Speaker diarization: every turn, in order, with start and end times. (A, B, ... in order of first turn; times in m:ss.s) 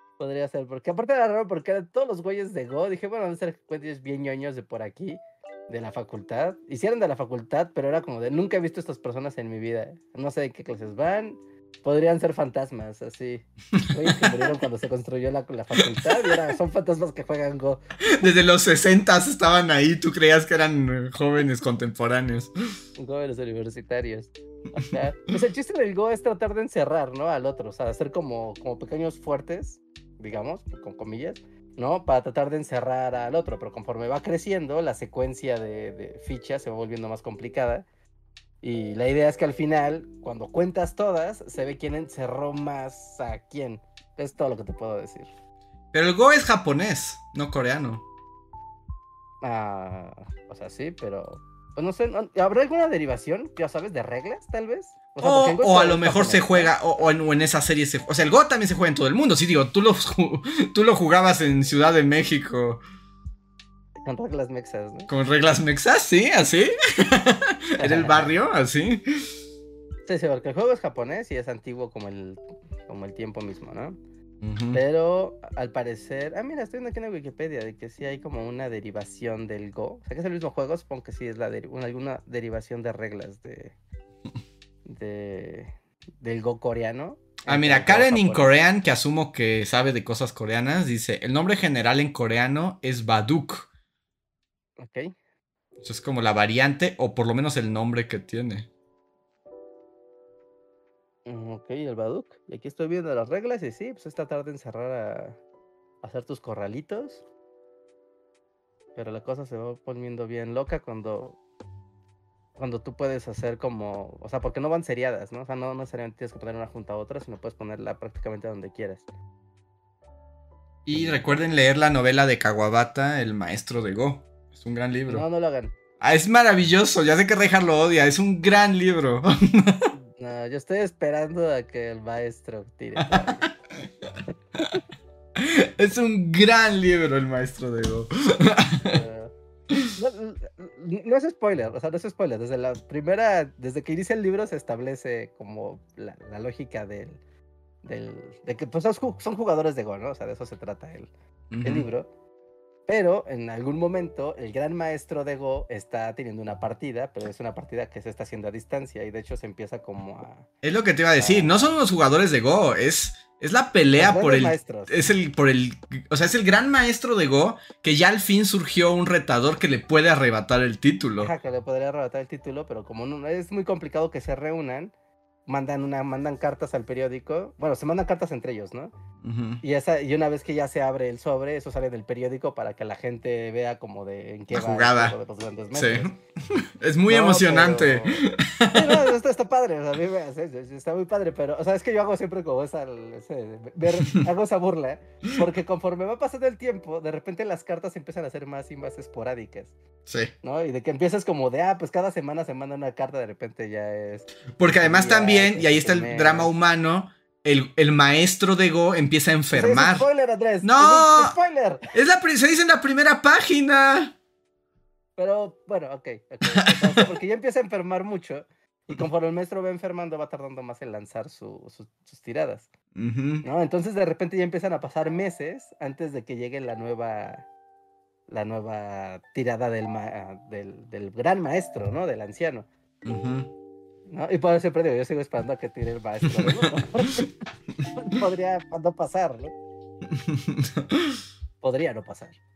0:00.2-0:17.8 A
0:18.1-0:22.5 B
0:23.0-0:37.9 A
0:38.6-0:45.3 A
0:45.9-0:48.0 B
0:49.4-0:56.8 A
0:55.2-1:02.8 B
1:04.0-1:05.1 A
1:05.1-1:09.2 B
1:07.8-1:08.4 A
1:10.1-1:14.0 A
1:14.4-1:14.8 B
1:14.7-1:23.8 A
1:24.8-1:28.6 A
1:27.5-1:33.7 B
1:34.8-1:35.2 A
1:35.8-1:38.7 B
1:41.3-1:45.4 A
1:46.0-1:47.2 A
1:49.0-1:51.4 A
1:52.6-1:59.0 A
2:00.9-2:05.2 B
2:00.9-2:01.2 A
2:05.1-2:05.7 A
2:06.0-2:09.9 B
2:10.0-2:13.5 A
2:13.0-2:13.5 B
2:15.4-2:19.0 B
2:18.8-2:19.3 A
2:19.9-2:27.2 A
2:27.8-2:31.1 A
2:31.5-2:31.9 B
2:31.6-2:32.1 A
2:32.9-2:40.5 A
2:40.6-2:51.3 B
2:41.2-2:41.7 A
2:44.0-2:44.9 A
2:51.2-2:54.9 A
2:55.5-2:58.9 A
2:59.2-2:59.6 B
2:59.6-3:06.2 A
3:04.5-3:05.2 B
3:05.7-3:09.0 B
3:07.1-3:19.8 A
3:20.1-3:20.3 B
3:20.4-3:26.5 A
3:24.6-3:30.1 B
3:29.5-3:31.9 A
3:30.6-3:31.4 B
3:31.9-3:34.1 B
3:35.2-3:42.7 A
3:43.0-3:43.4 B
3:43.4-3:47.5 A
3:48.3-3:52.7 A
3:53.0-3:53.5 B
3:54.1-3:59.5 A
3:56.3-3:57.2 B
4:00.1-4:01.2 B
4:01.6-4:02.4 A